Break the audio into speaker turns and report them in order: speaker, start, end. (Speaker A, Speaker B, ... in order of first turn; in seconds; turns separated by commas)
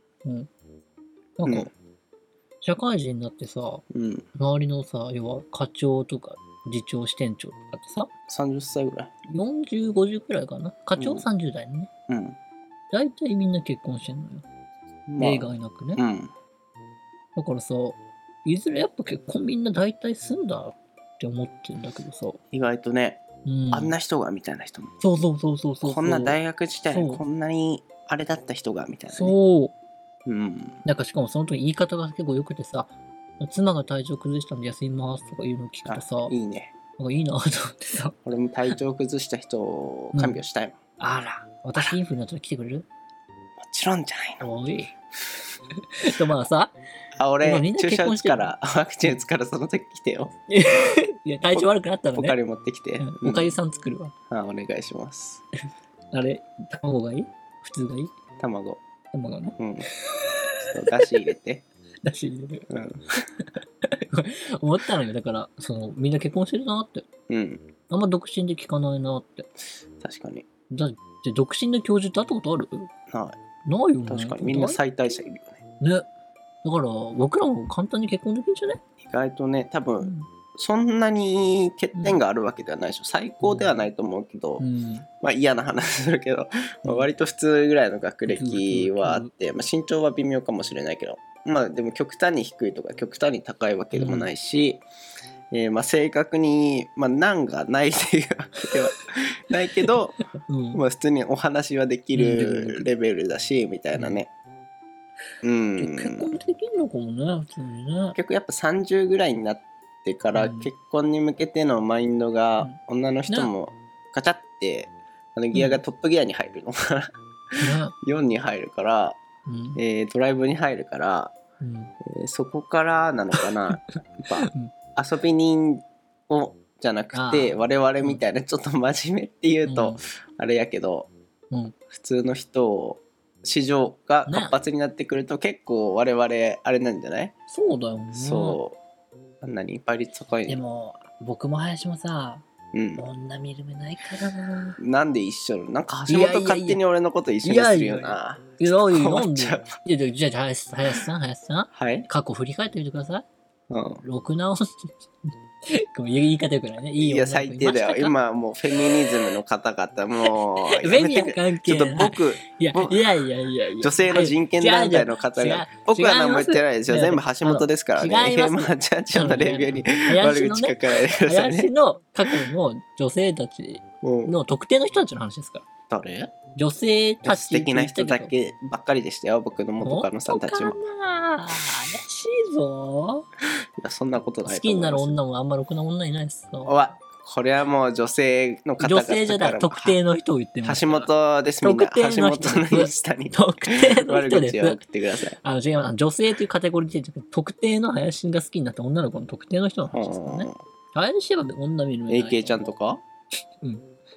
Speaker A: 1.4-1.7, Speaker B: 1.4-1.7, Speaker A: 2.6-3.8, Speaker B: 3.9-4.3, Speaker A: 4.3-8.1, Speaker B: 8.3-9.1, Speaker A: 9.3-11.9, Speaker B: 11.0-11.2, Speaker B: 12.1-12.4, Speaker A: 12.9-14.5, Speaker B: 15.1-16.3, Speaker A: 15.2-16.0, Speaker A: 17.4-22.4, Speaker B: 22.5-24.9, Speaker A: 23.4-23.9, Speaker A: 25.0-26.4, Speaker B: 25.8-29.4, Speaker A: 26.9-27.2, Speaker A: 29.1-29.7, Speaker B: 30.3-30.8, Speaker A: 30.8-36.3, Speaker B: 35.9-36.8, Speaker A: 37.0-38.1, Speaker B: 38.2-40.8, Speaker A: 40.1-40.4, Speaker A: 41.0-42.9, Speaker B: 43.6-44.5, Speaker A: 44.4-44.9, Speaker A: 46.0-46.8, Speaker B: 47.2-50.3, Speaker A: 47.4-48.5, Speaker A: 50.5-52.4, Speaker B: 51.5-53.6, Speaker A: 53.0-54.1, Speaker B: 54.3-55.4, Speaker A: 56.1-58.1, Speaker B: 58.4-58.8, Speaker A: 59.1-61.1, Speaker B: 59.6-59.9, Speaker B: 60.6-61.6, Speaker A: 62.0-62.7, Speaker B: 62.7-63.0, Speaker A: 63.4-67.1, Speaker B: 67.3-67.7, Speaker A: 67.9-69.5, Speaker B: 70.0-70.5, Speaker A: 70.7-72.9, Speaker B: 73.1-73.4, Speaker A: 73.7-74.8, Speaker B: 74.1-75.6, Speaker A: 75.8-76.1, Speaker A: 76.6-78.8, Speaker B: 79.0-84.7, Speaker A: 80.0-80.3, Speaker A: 82.0-82.2, Speaker A: 83.4-83.9, Speaker A: 84.6-85.1, Speaker B: 85.2-94.8, Speaker A: 88.3-89.3, Speaker A: 93.9-94.3, Speaker B: 95.5-100.2, Speaker A: 99.8-100.8, Speaker B: 100.7-104.3, Speaker A: 102.1-102.8, Speaker A: 104.0-104.2, Speaker B: 105.4-106.3, Speaker A: 105.8-108.2, Speaker B: 108.2-117.1, Speaker A: 110.3-110.7, Speaker A: 115.5-115.8, Speaker A: 117.6-117.9, Speaker B: 118.0-119.2, Speaker A: 119.5-119.8, Speaker B: 119.8-121.3, Speaker A: 121.6-121.9, Speaker B: 122.0-131.1, Speaker A: 124.3-124.7, Speaker A: 127.1-128.2, Speaker A: 129.7-130.0, Speaker B: 131.9-137.3, Speaker A: 134.3-134.6, Speaker A: 137.5-138.6, Speaker B: 138.1-138.8, Speaker B: 139.4-140.6, Speaker A: 140.5-142.4, Speaker B: 142.7-143.0, Speaker A: 143.0-144.8, Speaker B: 144.8-149.8, Speaker A: 146.1-146.8, Speaker A: 147.4-153.3, Speaker B: 151.7-152.1, Speaker B: 153.7-154.0, Speaker A: 154.0-158.2, Speaker B: 157.0-163.2, Speaker A: 158.9-159.2, Speaker A: 160.3-175.7, Speaker B: 163.8-171.7, Speaker B: 174.0-174.3, Speaker B: 175.9-176.3, Speaker A: 176.5-178.3, Speaker B: 177.2-180.8, Speaker A: 179.8-183.3, Speaker B: 183.8-185.2, Speaker A: 184.4-186.8, Speaker B: 186.7-190.0, Speaker A: 188.8-191.1, Speaker B: 190.6-195.4, Speaker A: 191.6-194.8, Speaker A: 195.4-202.8, Speaker B: 199.9-200.6, Speaker B: 202.1-203.0, Speaker A: 203.6-203.9